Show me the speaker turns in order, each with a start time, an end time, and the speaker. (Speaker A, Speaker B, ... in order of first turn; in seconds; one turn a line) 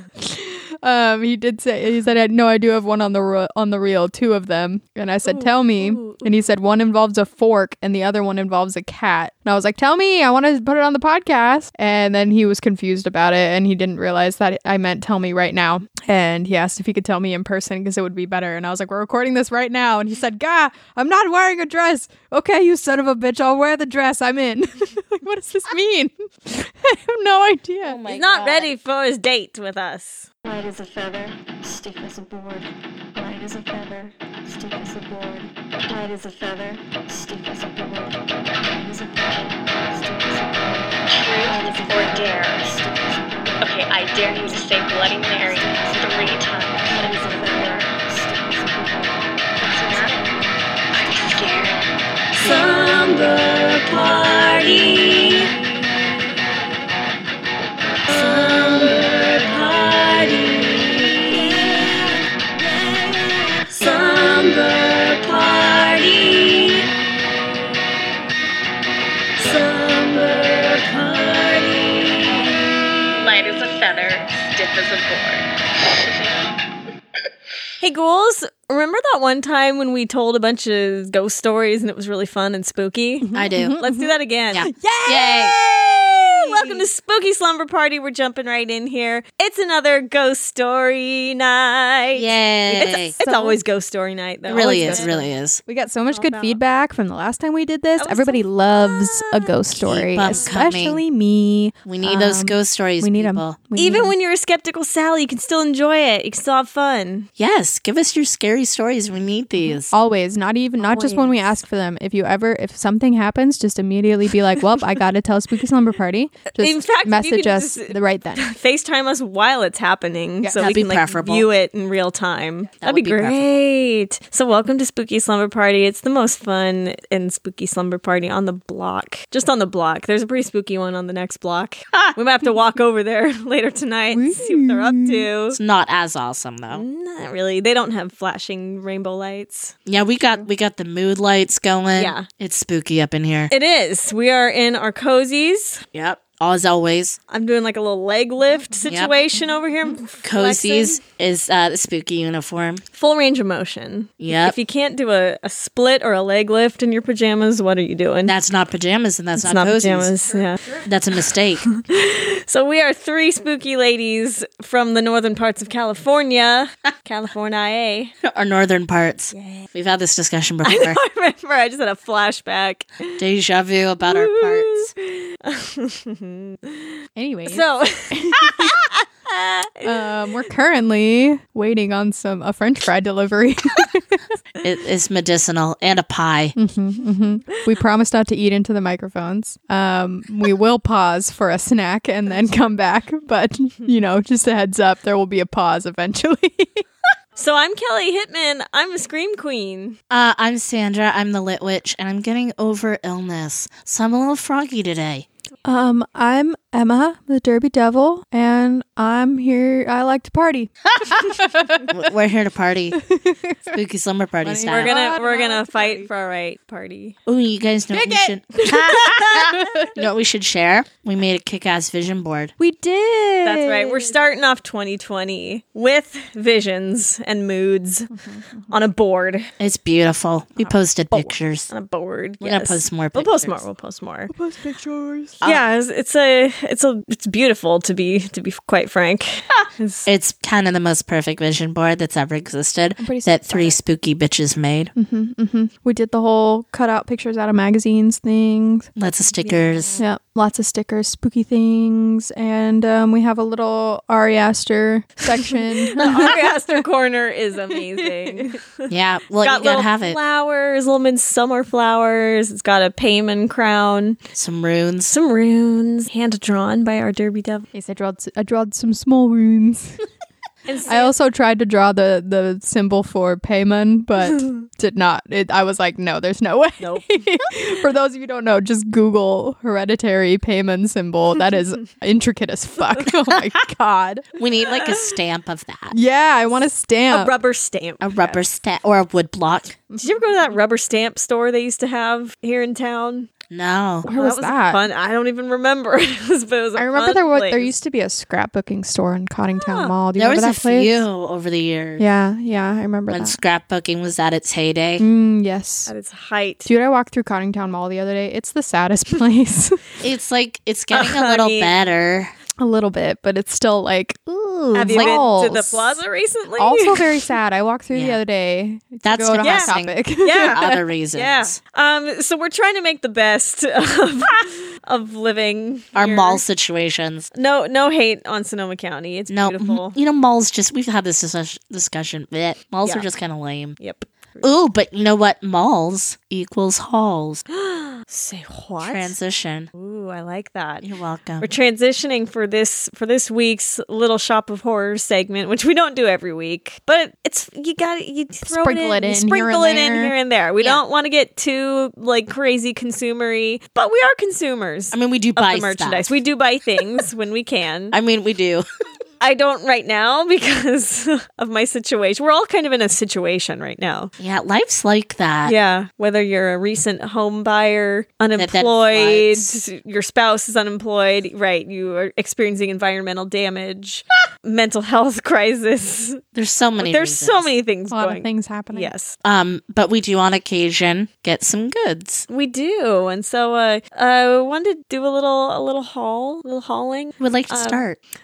Speaker A: 0.2-28.0
Speaker B: 5.2-6.3
Speaker C: 27.8-28.8
Speaker B: 28.1-30.3
Speaker D: 30.4-51.7
Speaker E: 41.1-42.8
Speaker E: 43.6-47.9
Speaker E: 49.8-50.1
Speaker E: 50.9-51.9
Speaker E: 52.4-55.5
Speaker D: 52.4-53.0
Speaker E: 58.1-61.0
Speaker E: 63.8-66.2
Speaker E: 70.2-70.9
Speaker E: 73.1-76.3
Speaker B: 77.8-84.7
Speaker A: 83.2-84.1
Speaker C: 83.3-83.8
Speaker C: 84.5-85.5
Speaker A: 84.7-86.9
Speaker B: 86.1-95.3
Speaker C: 92.1-93.2
Speaker A: 93.2-93.6
Speaker C: 94.5-95.6
Speaker A: 94.6-95.1
Speaker A: 95.7-104.1
Speaker B: 96.1-96.6
Speaker B: 98.0-99.5
Speaker C: 99.7-101.0
Speaker B: 100.3-100.6
Speaker C: 101.8-103.6
Speaker B: 103.8-107.3
Speaker C: 107.4-109.9
Speaker A: 109.9-118.5
Speaker B: 110.8-111.6
Speaker B: 116.6-135.6
Speaker A: 120.4-120.7
Speaker C: 120.6-121.5
Speaker C: 122.8-123.6
Speaker A: 134.1-135.3
Speaker C: 135.5-136.8
Speaker B: 136.7-139.8
Speaker C: 139.9-143.5
Speaker B: 142.0-142.3
Speaker B: 143.5-145.8
Speaker C: 145.9-147.2
Speaker B: 147.3-151.0
Speaker A: 148.7-149.3
Speaker C: 150.2-152.8
Speaker B: 152.9-158.3
Speaker C: 154.2-154.6
Speaker C: 158.3-160.1
Speaker B: 159.4-160.7
Speaker A: 160.3-160.8
Speaker C: 160.8-161.7
Speaker B: 161.7-168.1
Speaker C: 168.2-171.0
Speaker B: 169.3-169.7
Speaker B: 170.6-173.2
Speaker C: 173.2-174.9
Speaker B: 174.0-177.0
Speaker A: 177.2-178.7
Speaker B: 177.5-179.9
Speaker A: 179.8-184.2
Speaker C: 184.6-186.6
Speaker A: 186.6-196.8
Speaker B: 197.4-200.0
Speaker C: 200.1-205.3
Speaker A: 205.7-211.9
Speaker C: 211.9-213.0
Speaker A: 213.1-213.8
Speaker C: 213.7-214.9
Speaker A: 214.4-216.1
Speaker B: 214.7-217.2
Speaker C: 217.3-222.5
Speaker A: 217.9-218.7
Speaker B: 218.7-219.5
Speaker A: 219.5-219.9
Speaker A: 222.6-224.1
Speaker B: 223.4-228.1
Speaker A: 228.1-228.7
Speaker B: 228.7-229.5
Speaker C: 229.6-231.7
Speaker B: 231.1-234.3
Speaker C: 232.4-233.6
Speaker A: 234.3-235.4
Speaker C: 235.4-235.7
Speaker B: 235.4-240.1
Speaker C: 240.1-244.9
Speaker A: 243.0-243.8
Speaker A: 245.0-248.9
Speaker C: 249.0-250.0
Speaker B: 249.4-250.0
Speaker A: 250.0-256.5
Speaker B: 255.9-264.2
Speaker C: 256.0-256.3
Speaker A: 257.7-258.6
Speaker C: 258.9-260.2
Speaker C: 264.4-265.1
Speaker B: 265.1-267.7
Speaker A: 267.7-270.0
Speaker B: 270.7-271.1
Speaker A: 270.9-284.3
Speaker B: 276.8-277.5
Speaker C: 284.4-285.9
Speaker B: 284.6-285.2
Speaker A: 285.9-287.3
Speaker B: 287.1-288.4
Speaker C: 288.0-289.8
Speaker A: 289.9-290.6
Speaker B: 290.0-293.3
Speaker C: 293.5-294.1
Speaker A: 294.1-294.8
Speaker B: 294.1-297.7
Speaker A: 296.8-301.0
Speaker B: 299.6-299.9
Speaker C: 300.1-302.1
Speaker A: 302.0-303.4
Speaker C: 303.1-305.0
Speaker A: 305.0-305.9
Speaker B: 305.9-306.7
Speaker A: 306.7-310.0
Speaker C: 310.0-312.3
Speaker B: 310.9-311.7
Speaker A: 312.6-316.0
Speaker B: 314.7-317.3
Speaker C: 314.8-315.2
Speaker A: 316.6-320.8
Speaker C: 317.9-318.2
Speaker C: 319.0-320.0
Speaker B: 319.4-326.4
Speaker C: 320.5-321.6
Speaker C: 325.9-327.3
Speaker B: 327.4-330.0
Speaker C: 329.3-333.8
Speaker B: 333.8-334.5
Speaker C: 334.4-337.4
Speaker B: 337.5-339.1
Speaker C: 338.8-339.7
Speaker B: 339.8-340.9
Speaker C: 340.8-341.5
Speaker B: 341.4-358.0
Speaker A: 348.4-350.1
Speaker C: 354.9-356.2
Speaker C: 357.9-358.7
Speaker B: 359.2-364.1
Speaker C: 364.2-365.6
Speaker B: 365.4-376.2
Speaker C: 368.4-369.6
Speaker C: 376.3-377.5
Speaker B: 376.8-379.2
Speaker A: 377.9-378.9
Speaker C: 379.2-382.3
Speaker B: 382.3-387.8
Speaker C: 387.2-388.0